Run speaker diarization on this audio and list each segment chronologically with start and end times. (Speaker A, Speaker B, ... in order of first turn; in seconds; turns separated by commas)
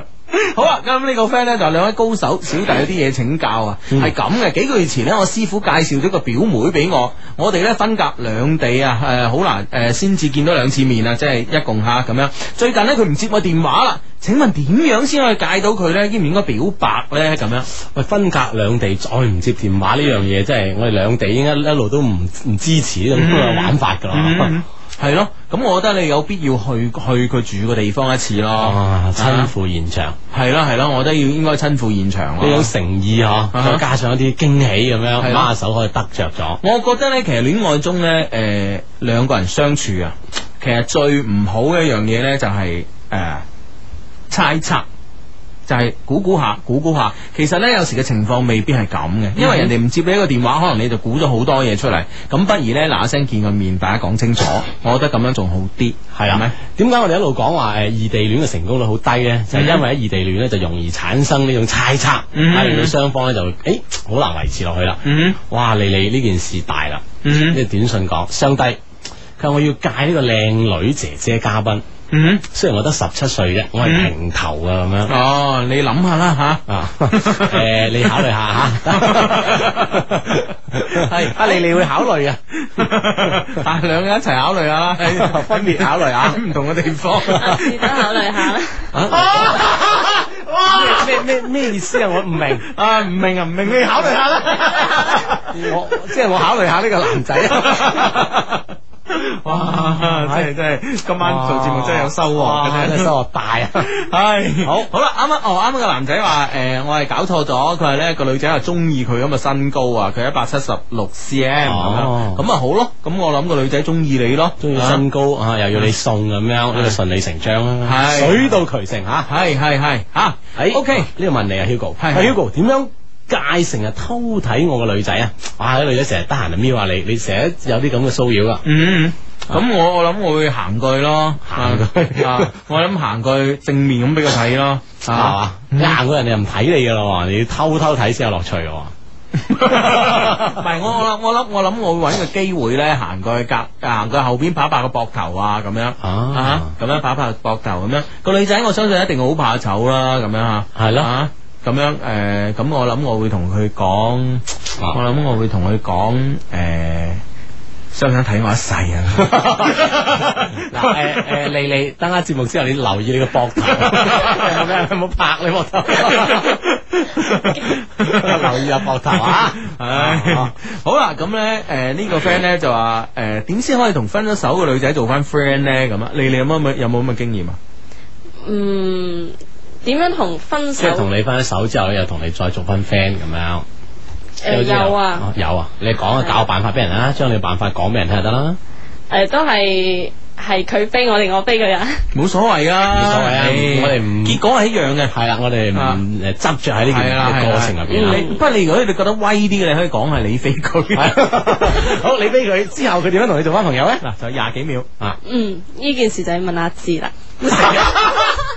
Speaker A: 0.3-17.7, Speaker B: 17.8-24.6, Speaker A: 23.1-29.5, Speaker B: 28.6-30.2, Speaker A: 30.3-32.7, Speaker B: 32.4-36.6, Speaker A: 33.5-33.8, Speaker A: 35.2-35.5, Speaker A: 36.6-43.5, Speaker A: 44.3-44.9, Speaker A: 45.7-56.6, Speaker B: 49.4-49.7, Speaker B: 56.1-68.8, Speaker A: 59.5-59.9, Speaker A: 62.3-63.0, Speaker A: 65.0-65.4, Speaker A: 67.2-67.6, Speaker B: 69.4-71.8, Speaker A: 72.1-72.5, Speaker B: 72.5-75.1, Speaker A: 73.8-74.1, Speaker A: 75.1-82.1, Speaker B: 76.7-83.6, Speaker A: 82.6-92.0, Speaker B: 85.0-86.4, Speaker C: 87.3-88.8, Speaker B: 89.0-89.9, Speaker B: 90.7-92.7, Speaker A: 92.5-95.7, Speaker B: 94.2-94.7, Speaker B: 95.3-98.2, Speaker A: 97.4-103.1, Speaker B: 99.6-100.5, Speaker B: 101.2-103.9, Speaker A: 103.8-115.0, Speaker B: 104.6-104.9, Speaker B: 111.7-112.4, Speaker B: 114.6-119.3, Speaker A: 116.7-117.0, Speaker A: 117.8-118.6, Speaker A: 119.3-121.1, Speaker B: 120.6-128.6, Speaker A: 122.0-122.4, Speaker A: 128.7-136.0, Speaker B: 131.5-132.6, Speaker B: 135.1-138.9, Speaker A: 139.4-157.2, Speaker B: 139.7-140.6, Speaker B: 146.0-146.8, Speaker B: 150.8-151.1, Speaker A: 157.9-161.4, Speaker B: 159.2-166.5, Speaker A: 163.7-164.6, Speaker A: 166.0-177.6, Speaker B: 168.0-170.5, Speaker C: 178.4-181.1, Speaker B: 180.8-183.7, Speaker C: 184.4-185.3, Speaker B: 184.5-188.6, Speaker C: 189.1-192.0, Speaker A: 192.1-195.1, Speaker B: 192.9-194.4, Speaker B: 195.1-198.3, Speaker A: 195.7-196.0, Speaker A: 196.9-202.0, Speaker C: 197.9-198.3, Speaker B: 200.9-204.1, Speaker A: 204.0-204.9, Speaker C: 205.2-208.0, Speaker B: 207.5-207.9, Speaker A: 207.5-208.3